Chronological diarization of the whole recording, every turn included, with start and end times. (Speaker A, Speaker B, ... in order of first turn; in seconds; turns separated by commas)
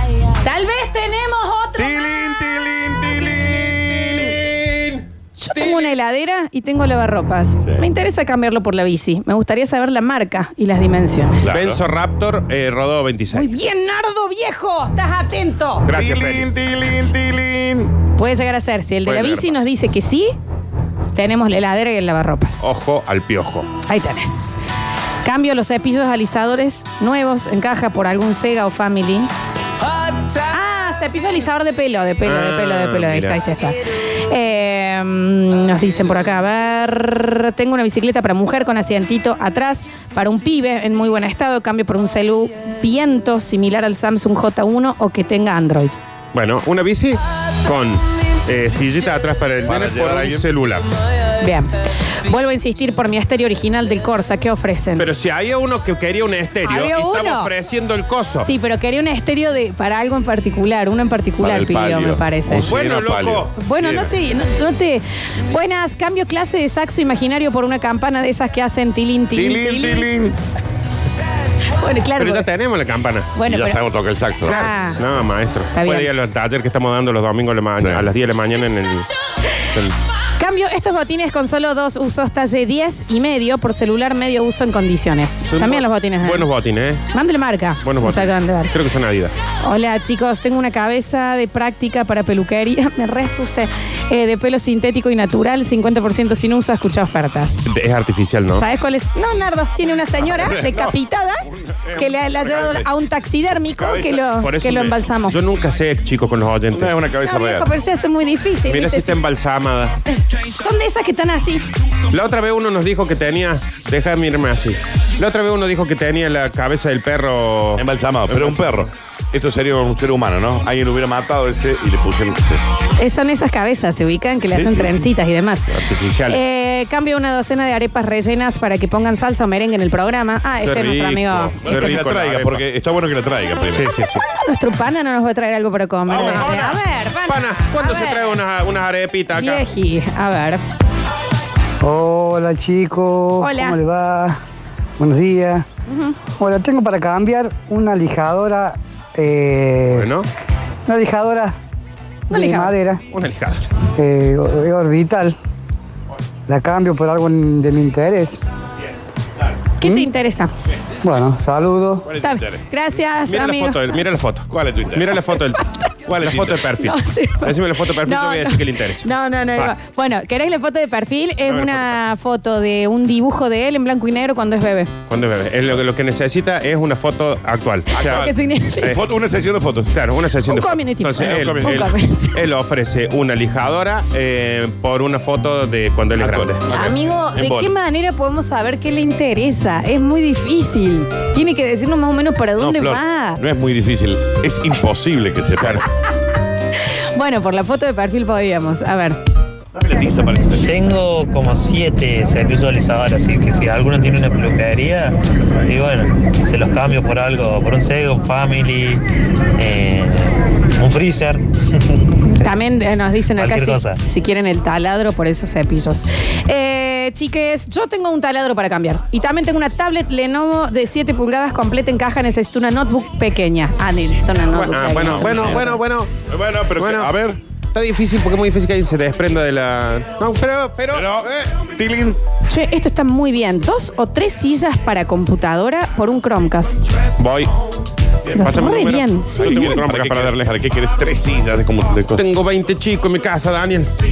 Speaker A: 0.4-2.5, Speaker B: 1.8-4.5, Speaker C: 4.1-5.0, Speaker A: 5.4-11.5, Speaker B: 11.4-11.8, Speaker C: 11.5-13.5, Speaker A: 13.3-15.9, Speaker C: 15.9-16.5, Speaker B: 15.9-17.9, Speaker A: 18.2-20.4, Speaker C: 19.1-19.6, Speaker A: 21.1-22.7, Speaker C: 22.6-23.7, Speaker A: 23.9-24.6, Speaker A: 25.2-29.3, Speaker A: 30.5-46.0, Speaker C: 32.2-33.4, Speaker C: 46.3-50.9, Speaker B: 49.6-50.5, Speaker A: 51.4-51.7, Speaker A: 52.2-55.1, Speaker C: 55.0-58.5, Speaker A: 56.6-57.5, Speaker A: 58.4-62.7, Speaker B: 61.4-63.5, Speaker C: 62.7-63.5, Speaker A: 63.6-70.1, Speaker B: 69.3-70.3, Speaker A: 71.8-72.5, Speaker C: 72.2-73.3, Speaker A: 73.4-73.8, Speaker B: 73.4-74.6, Speaker A: 74.4-75.0, Speaker C: 74.5-79.1, Speaker A: 75.7-76.1, Speaker B: 77.8-78.1, Speaker C: 79.7-80.0, Speaker A: 80.4-86.5, Speaker C: 85.5-87.0, Speaker A: 87.1-88.7, Speaker C: 87.8-89.4, Speaker A: 89.6-97.6, Speaker C: 97.7-98.6, Speaker A: 98.6-101.4, Speaker B: 100.4-100.9, Speaker C: 101.9-102.1, Speaker A: 102.0-105.4, Speaker B: 102.6-102.8, Speaker B: 103.8-104.2, Speaker C: 104.4-107.0, Speaker B: 106.7-107.7, Speaker A: 107.2-109.1, Speaker C: 108.7-110.0, Speaker A: 110.1-111.7, Speaker C: 112.1-118.8, Speaker B: 117.8-122.6, Speaker A: 123.0-125.7, Speaker B: 124.5-125.0, Speaker C: 125.7-126.4, Speaker A: 126.3-131.9, Speaker C: 130.6-132.6, Speaker B: 131.6-134.0, Speaker C: 133.7-134.2, Speaker A: 134.2-138.4, Speaker B: 136.1-136.8, Speaker C: 136.2-136.6, Speaker C: 137.3-139.6, Speaker A: 139.4-140.6, Speaker D: 141.8-144.4, Speaker A: 143.4-143.8, Speaker D: 145.0-145.6, Speaker A: 145.9-146.2, Speaker D: 146.4-150.1, Speaker C: 149.9-150.3, Speaker D: 150.9-151.6, Speaker A: 152.3-152.8, Speaker D: 152.3-153.0, Speaker C: 153.1-153.7, Speaker D: 154.0-155.4, Speaker D: 156.5-158.4, Speaker A: 159.8-160.5, Speaker D: 161.0-162.1, Speaker B: 162.1-162.6, Speaker A: 162.2-164.0, Speaker C: 163.3-165.6, Speaker B: 164.5-165.2, Speaker B: 166.1-166.7, Speaker C: 166.2-169.7, Speaker A: 166.8-174.9, Speaker C: 171.5-172.0, Speaker C: 175.1-178.2, Speaker B: 177.9-179.9, Speaker A: 178.0-179.0, Speaker C: 179.9-186.6, Speaker A: 180.5-182.4, Speaker B: 181.2-181.9, Speaker B: 186.2-187.7, Speaker A: 186.7-193.4, Speaker B: 192.6-195.8, Speaker A: 196.8-199.2, Speaker B: 199.8-200.7, Speaker E: 200.6-209.0, Speaker E: 209.6-212.0, Speaker A: 212.2-225.7, Speaker E: 213.4-214.0, Speaker C: 224.6-226.1, Speaker B: 225.0-225.7, Speaker B: 226.3-227.4, Speaker C: 226.8-227.1, Speaker C: 227.7-231.2, Speaker B: 230.9-232.2, Speaker A: 232.5-236.8, Speaker C: 237.2-237.5, Speaker C: 238.3-240.5, Speaker A: 238.3-239.7, Speaker B: 239.4-242.2, Speaker C: 242.1-244.0